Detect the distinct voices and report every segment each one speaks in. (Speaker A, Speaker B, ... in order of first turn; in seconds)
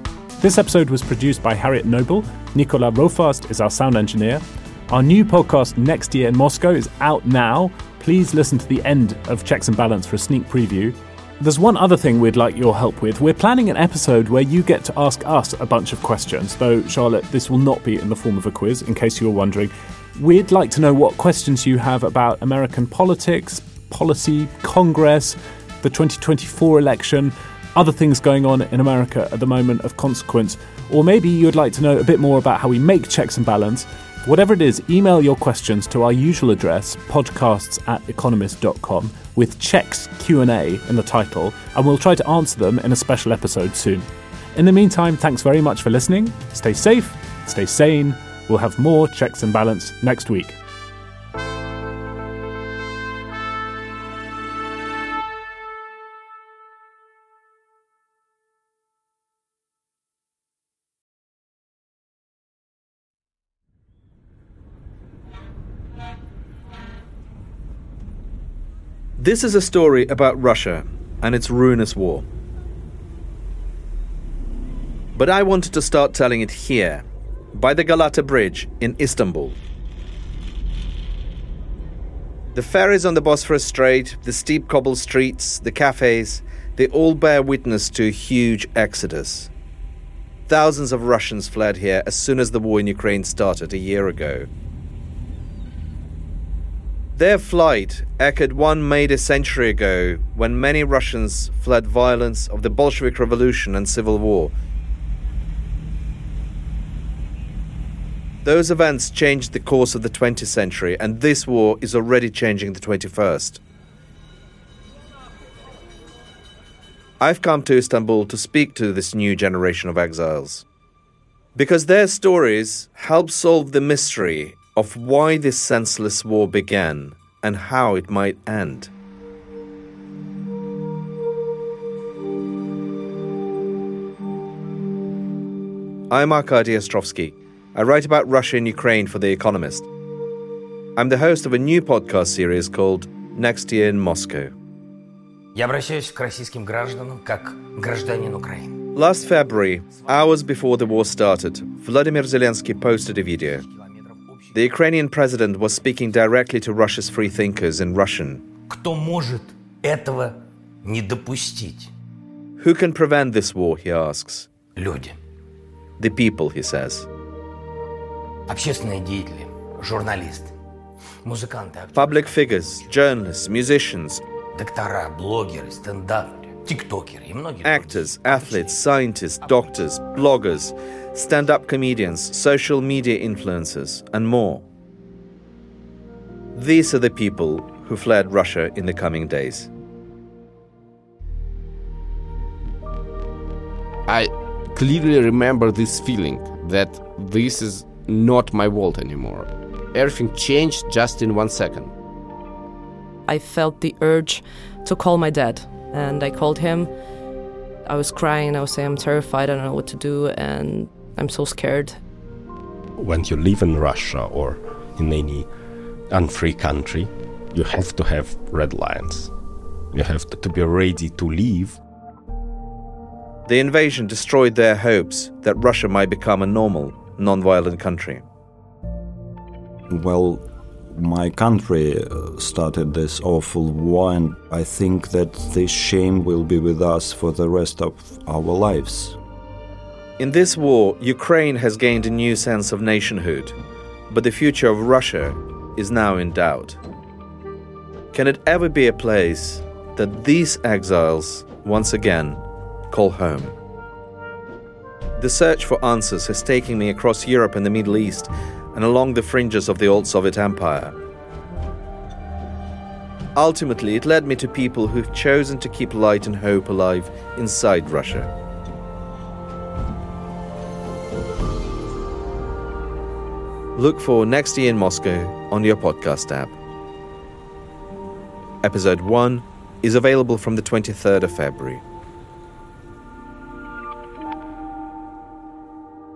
Speaker A: 0.4-50.6
Speaker B: 69.2-72.3, 75.1-79.6, 82.5-89.5, 90.5-94.5, 97.2-104.5, 108.4-113.6, 117.2-120.6, 121.5-128.9, 136.1-139.9, 140.9-144.5, 148.9-153.6, 154.5-158.4, 162.6-164.5, 166.0-167.1, 171.9-174.2, 177.6-184.6, 186.5-189.7, 223.4-228.2, 240.2-243.5, 244.1-246.8, 248.1-253.5, 255.2-260.9, 263.3-268.3, 273.8-276.5, 278.6-281.8
Speaker C: 145.5-148.8, 153.6-154.6, 158.7-161.9, 164.8-165.2, 168.5-170.5, 171.2-172.8, 174.5-178.8
Speaker D: 194.1-201.9
Speaker E: 203.2-206.9, 207.8-212.0
Speaker F: 213.0-215.5, 216.1-219.3, 219.9-221.8
Speaker G: 229.9-239.2